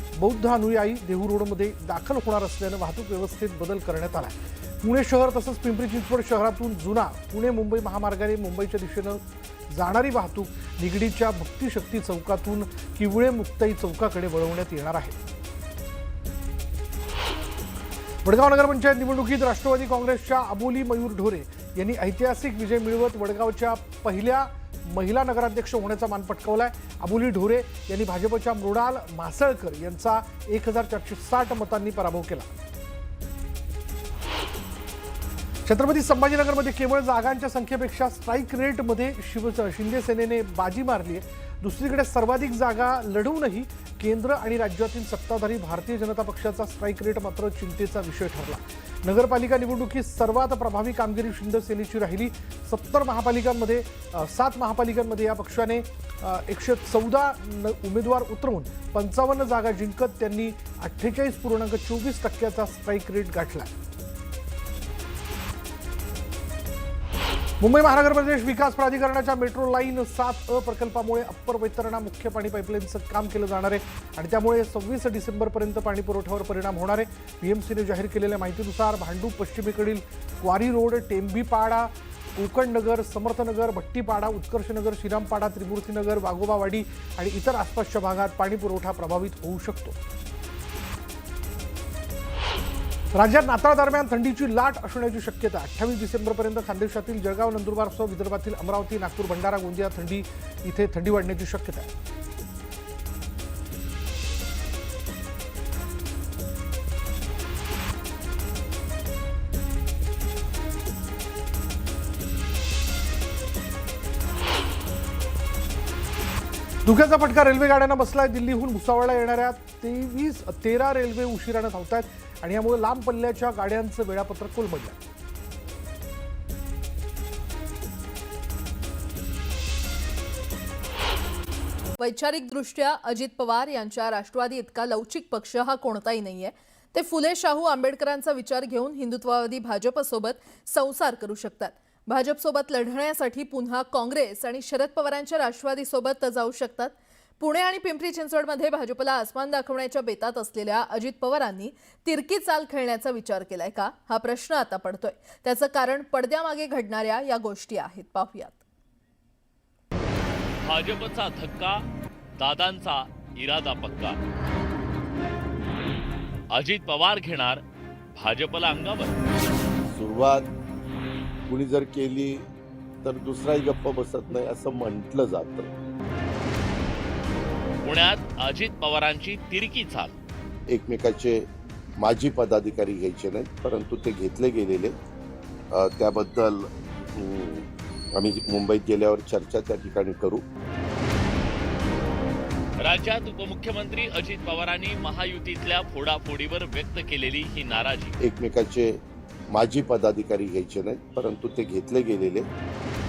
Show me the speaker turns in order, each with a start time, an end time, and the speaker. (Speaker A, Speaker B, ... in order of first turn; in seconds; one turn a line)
Speaker A: 0.2-15.2
Speaker A: 18.2-32.5
Speaker A: 35.6-63.7
Speaker A: 67.6-90.0
Speaker A: 93.1-101.9
Speaker A: 116.8-125.1
Speaker B: 132.0-158.6
Speaker C: 160.6-161.8
Speaker C: 162.4-164.2
Speaker C: 166.5-167.6
Speaker C: 168.1-169.2
Speaker D: 169.9-170.5
Speaker D: 171.5-172.4
Speaker D: 173.0-175.7
Speaker C: 177.8-180.1
Speaker D: 180.7-181.4
Speaker D: 182.0-184.9
Speaker D: 185.7-190.4
Speaker C: 192.8-198.2
Speaker D: 198.2-198.9
Speaker D: 199.5-202.5